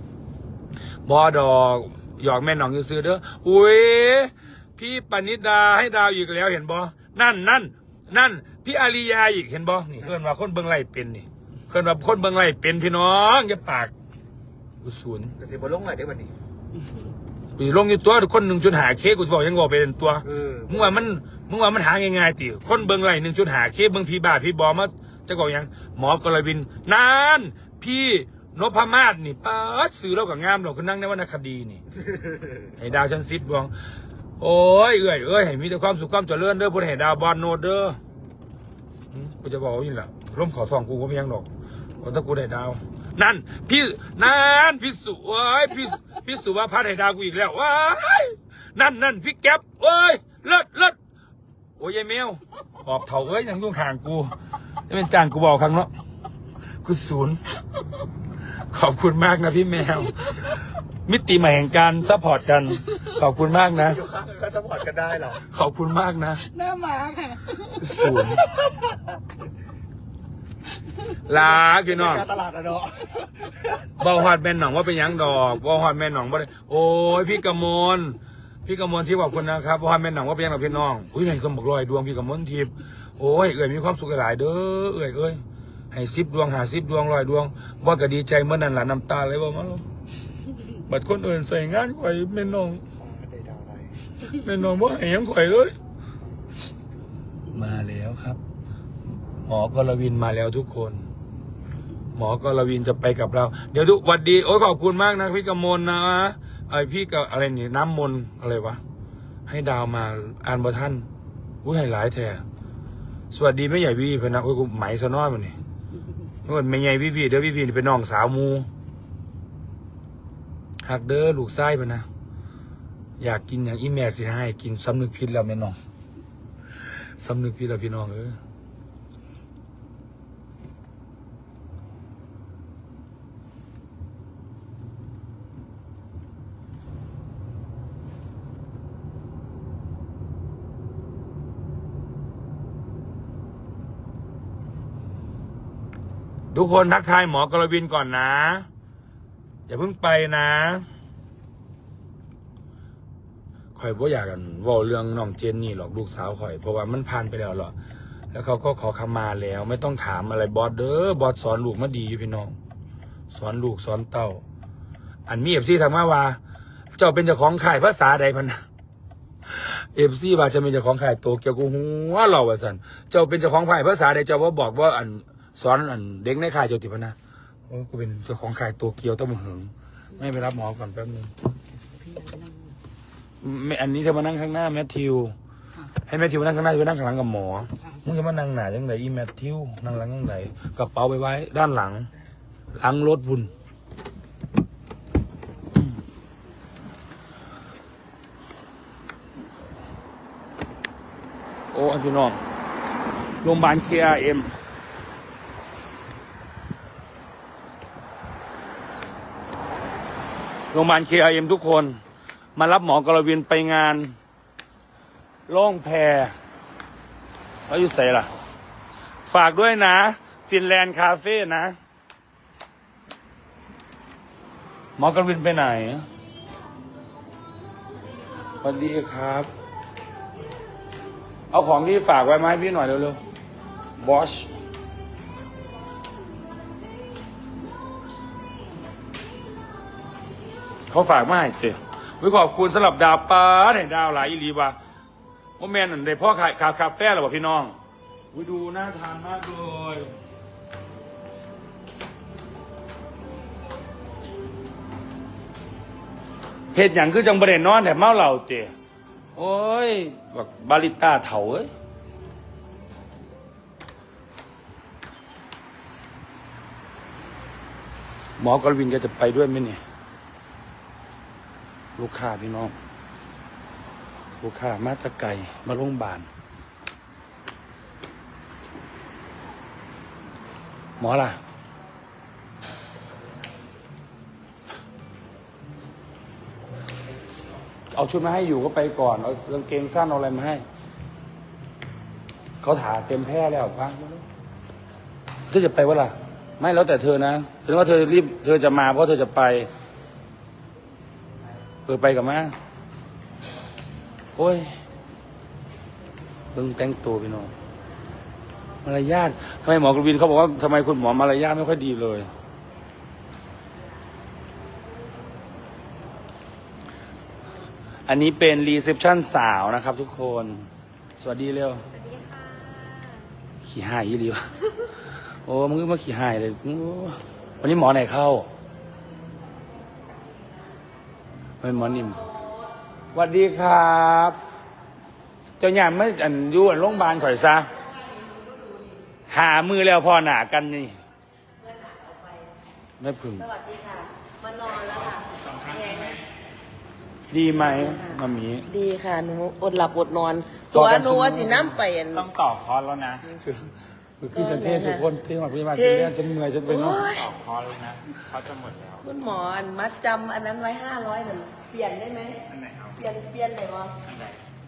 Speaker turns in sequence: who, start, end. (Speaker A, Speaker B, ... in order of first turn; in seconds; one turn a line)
Speaker A: 1.1-13.9
Speaker A: 14.8-15.3
Speaker B: 15.4-16.3
Speaker A: 17.6-31.8
Speaker B: 20.2-21.1
Speaker A: 32.8-33.7
Speaker A: 34.4-38.0
Speaker B: 38.1-38.4
Speaker A: 39.1-41.5
Speaker A: 42.0-51.0
Speaker A: 51.8-54.3
Speaker A: 54.9-55.9
Speaker A: 56.8-57.4
Speaker A: 58.7-64.0
Speaker B: 63.6-65.4
Speaker A: 65.5-66.4
Speaker C: 66.4-68.2
Speaker A: 67.8-68.5
Speaker A: 71.3-72.3
Speaker B: 71.4-73.8
Speaker A: 74.0-89.8
Speaker A: 90.9-92.8
Speaker B: 92.8-94.0
Speaker A: 94.4-95.8
Speaker A: 97.5-98.4
Speaker A: 99.5-101.0
Speaker A: 102.2-108.8
Speaker A: 109.5-111.1
Speaker A: 111.6-112.4
Speaker A: 113.3-115.6
Speaker A: 116.5-118.7
Speaker A: 120.8-122.1
Speaker A: 123.2-125.8
Speaker A: 127.2-128.4
Speaker A: 146.5-148.7
Speaker A: 149.7-150.8
Speaker A: 153.8-157.7
Speaker A: 158.3-162.6
Speaker A: 163.3-164.4
Speaker A: 165.3-166.4
Speaker A: 167.0-168.6
Speaker A: 169.5-177.2
Speaker A: 177.7-181.3
Speaker C: 181.9-182.8
Speaker A: 183.4-185.3
Speaker A: 186.1-192.1
Speaker A: 192.8-193.5
Speaker A: 201.7-202.4
Speaker A: 203.4-204.5
Speaker A: 210.7-212.0
Speaker A: 212.6-214.1
Speaker A: 215.5-216.3
Speaker A: 217.7-218.3
Speaker A: 219.3-221.8
Speaker A: 225.0-226.1
Speaker A: 228.6-229.5
Speaker A: 231.5-233.2
Speaker A: 234.0-234.5
Speaker A: 240.9-244.8
Speaker A: 245.6-247.8
Speaker A: 248.3-250.1
Speaker A: 256.7-258.7
Speaker A: 259.4-261.7
Speaker A: 268.4-269.8
Speaker A: 272.0-272.8
Speaker A: 274.4-276.3
Speaker A: 281.0-281.4
Speaker A: 287.9-290.6
Speaker A: 292.6-294.2
Speaker A: 295.5-299.7
Speaker A: 301.9-302.6
Speaker A: 304.4-304.7
Speaker A: 306.5-307.5
Speaker A: 308.8-312.3
Speaker A: 318.1-320.7
Speaker A: 321.2-321.9
Speaker A: 323.6-324.6
Speaker A: 325.4-328.5
Speaker A: 331.6-332.2
Speaker A: 333.1-334.4
Speaker A: 335.6-337.7
Speaker D: 337.7-339.0
Speaker A: 339.3-341.0
Speaker D: 341.6-342.5
Speaker A: 343.0-343.5
Speaker D: 343.4-346.2
Speaker E: 345.3-346.2
Speaker A: 347.3-348.7
Speaker D: 347.5-352.3
Speaker A: 350.7-351.8
Speaker E: 352.1-353.3
Speaker A: 353.4-357.1
Speaker D: 354.3-355.1
Speaker D: 355.7-357.3
Speaker E: 357.0-359.1
Speaker D: 359.0-362.4
Speaker E: 362.5-363.1
Speaker D: 363.0-363.9
Speaker E: 364.1-364.4